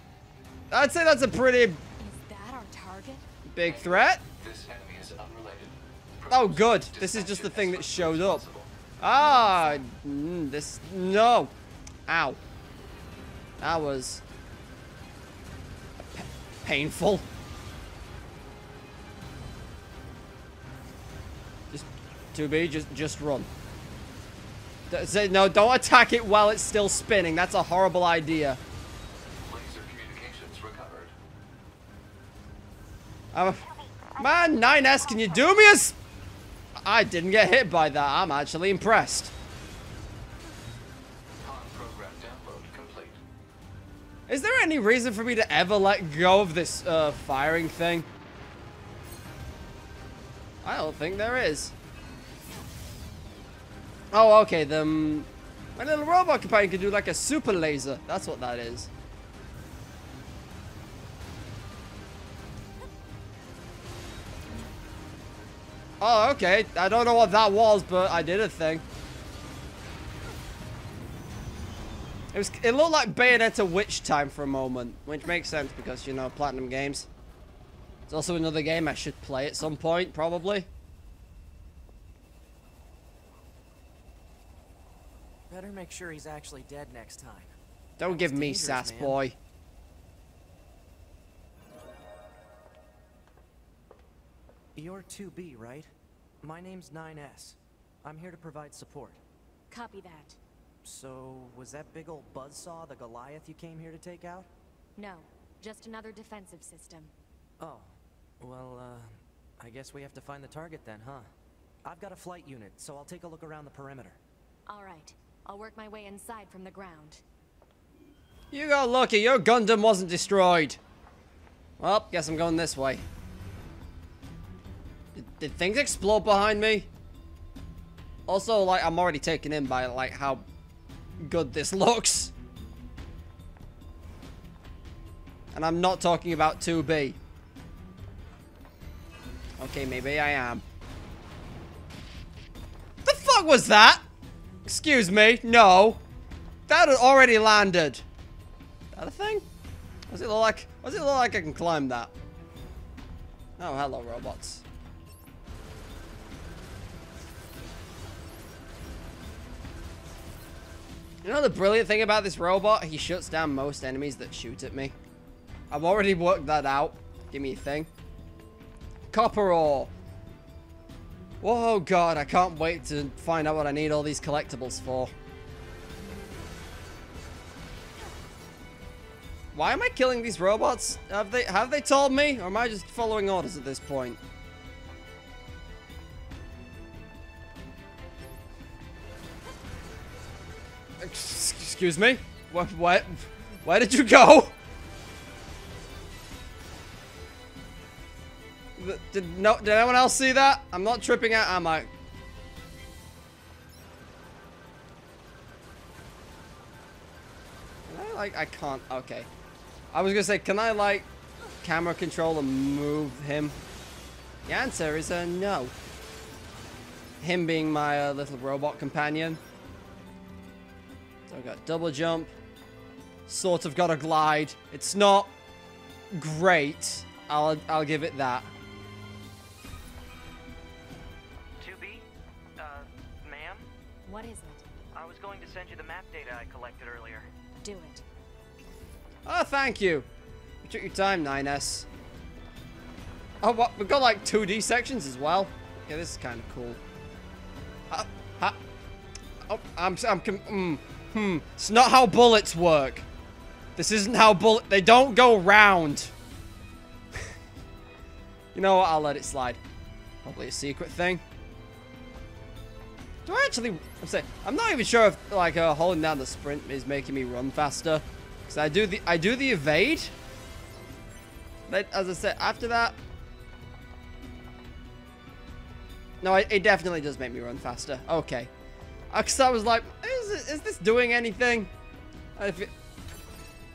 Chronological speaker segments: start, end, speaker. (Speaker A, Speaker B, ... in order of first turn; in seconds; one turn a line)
Speaker A: 0.7-1.8
Speaker B: 2.0-3.2
Speaker A: 3.5-4.2
Speaker C: 3.6-8.7
Speaker A: 6.3-8.4
Speaker A: 9.0-11.5
Speaker B: 9.2-9.9
Speaker A: 12.1-12.4
Speaker A: 13.6-14.2
Speaker A: 16.0-17.2
Speaker A: 21.7-23.5
Speaker A: 24.9-28.6
Speaker C: 29.4-31.1
Speaker A: 33.3-36.0
Speaker A: 36.8-39.3
Speaker C: 41.4-43.2
Speaker A: 44.3-48.1
Speaker A: 50.6-51.7
Speaker A: 54.1-58.9
Speaker A: 66.0-68.8
Speaker A: 72.3-77.1
Speaker A: 78.1-80.7
Speaker D: 85.5-89.2
Speaker A: 88.0-89.3
Speaker D: 94.8-95.9
Speaker D: 96.4-99.2
Speaker B: 99.7-100.4
Speaker D: 100.8-104.5
Speaker B: 105.0-107.1
Speaker D: 107.6-111.3
Speaker D: 111.8-114.2
Speaker B: 114.7-117.2
Speaker A: 118.5-120.8
Speaker A: 121.8-123.0
Speaker A: 125.1-126.9
Speaker A: 128.3-130.4
Speaker A: 131.2-132.3
Speaker A: 135.5-137.2
Speaker A: 139.6-140.6
Speaker A: 143.0-144.0
Speaker A: 144.6-146.0
Speaker A: 146.7-148.0
Speaker A: 148.9-149.4
Speaker A: 150.1-152.1
Speaker A: 153.6-154.6
Speaker A: 161.2-164.9
Speaker A: 165.7-167.9
Speaker A: 169.1-169.9
Speaker A: 171.4-175.1
Speaker A: 179.5-184.2
Speaker A: 191.0-194.5
Speaker A: 198.8-201.9
Speaker A: 207.9-209.3
Speaker A: 209.9-211.1
Speaker A: 211.6-213.6
Speaker A: 214.4-215.7
Speaker A: 217.2-219.4
Speaker A: 221.3-222.3
Speaker A: 223.3-225.3
Speaker A: 226.1-228.5
Speaker D: 231.6-233.7
Speaker B: 234.0-234.7
Speaker D: 234.9-237.3
Speaker B: 237.6-238.0
Speaker A: 239.2-240.1
Speaker A: 240.6-241.9
Speaker A: 243.4-246.8
Speaker A: 247.9-248.6
Speaker A: 249.5-253.0
Speaker A: 253.8-256.1
Speaker A: 258.5-259.6
Speaker A: 260.2-261.2
Speaker A: 263.2-270.1
Speaker A: 271.7-273.0
Speaker A: 276.2-278.5
Speaker A: 279.1-281.7
Speaker A: 282.4-282.7